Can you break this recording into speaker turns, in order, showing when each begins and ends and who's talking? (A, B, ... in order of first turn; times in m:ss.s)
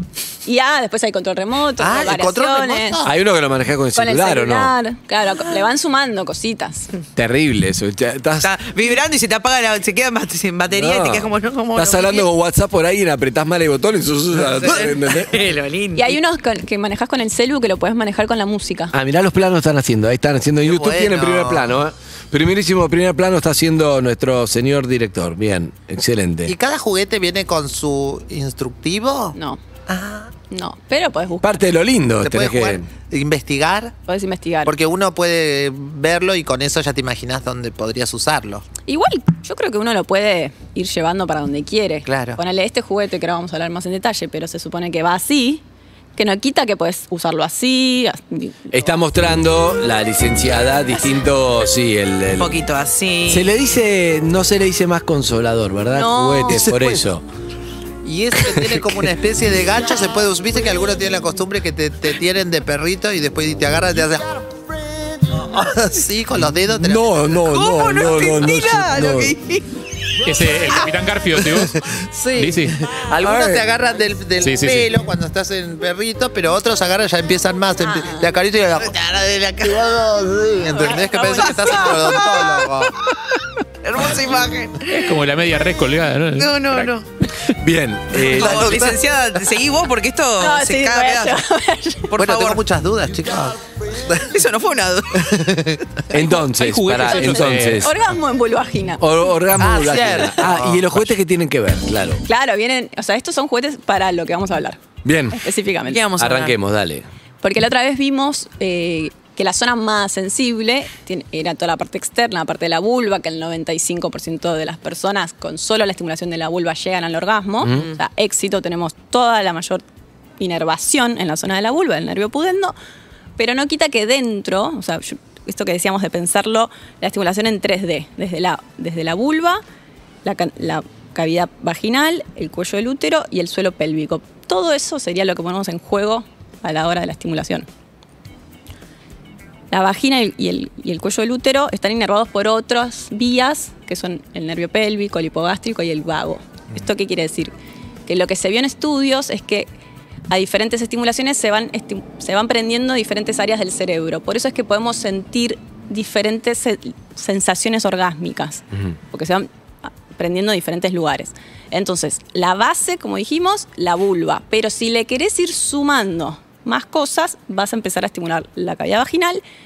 0:00.4-0:03.0 A
0:01.8-0:03.1 B
0:03.0-0:04.7 C
0:03.9-0:06.9 A
0:07.1-0:08.5 C
0:08.4-0:12.3 D
0:10.7-0:15.4 C
0:14.5-0:16.2 D
0:15.9-0:18.9 A
0:18.9-0:26.5 C
0:20.6-0:21.8 B
0:26.4-0:29.4 B
0:29.3-0:29.6 A
0:29.9-0:30.3 B
0:30.5-0:31.4 A
0:31.4-0:32.9 C
0:32.2-0:33.9 B
0:34.1-0:34.7 A
0:34.6-0:38.6 B
0:38.9-0:45.6 A
0:42.0-0:42.4 B
0:46.2-0:48.9 A
0:48.7-0:52.6 C
0:52.4-0:53.5 D
0:53.3-0:57.2 C
0:55.9-0:57.0 A
0:58.0-1:04.4 B
0:58.5-0:58.9 C
1:05.1-1:07.4 B
1:06.7-1:09.4 C
1:07.5-1:09.6 D
1:10.2-1:11.8 E
1:11.6-1:22.9 B
1:12.4-1:12.8 E
1:13.2-1:13.7 C
1:14.4-1:14.9 E
1:17.9-1:18.2 A
1:18.8-1:19.8 D
1:20.8-1:22.3 A
1:21.3-1:22.7 D
1:23.8-1:25.1 D
1:24.9-1:26.9 E
1:26.4-1:27.1 D
1:27.6-1:28.9 C
1:28.2-1:31.4 D
1:28.3-1:29.0 B
1:30.4-1:32.1 A
1:32.1-1:32.6 D
1:32.2-1:34.3 B
1:34.2-1:35.3 D
1:35.2-1:36.0 B
1:36.1-1:37.9 C
1:36.5-1:37.9 E
1:37.0-1:39.0 A
1:39.0-1:42.2 C
1:39.6-1:41.0 B
1:42.2-1:44.8 A
1:45.0-1:45.4 C
1:45.3-1:46.0 A
1:45.9-1:46.6 D
1:46.2-1:47.0 C
1:47.4-1:59.8 A
1:57.6-1:57.9 C
2:00.4-2:02.7 A
2:03.4-2:09.6 A
2:10.2-2:17.6 A
2:19.7-2:27.5 A
2:28.1-2:29.7 A
2:30.3-2:49.4 A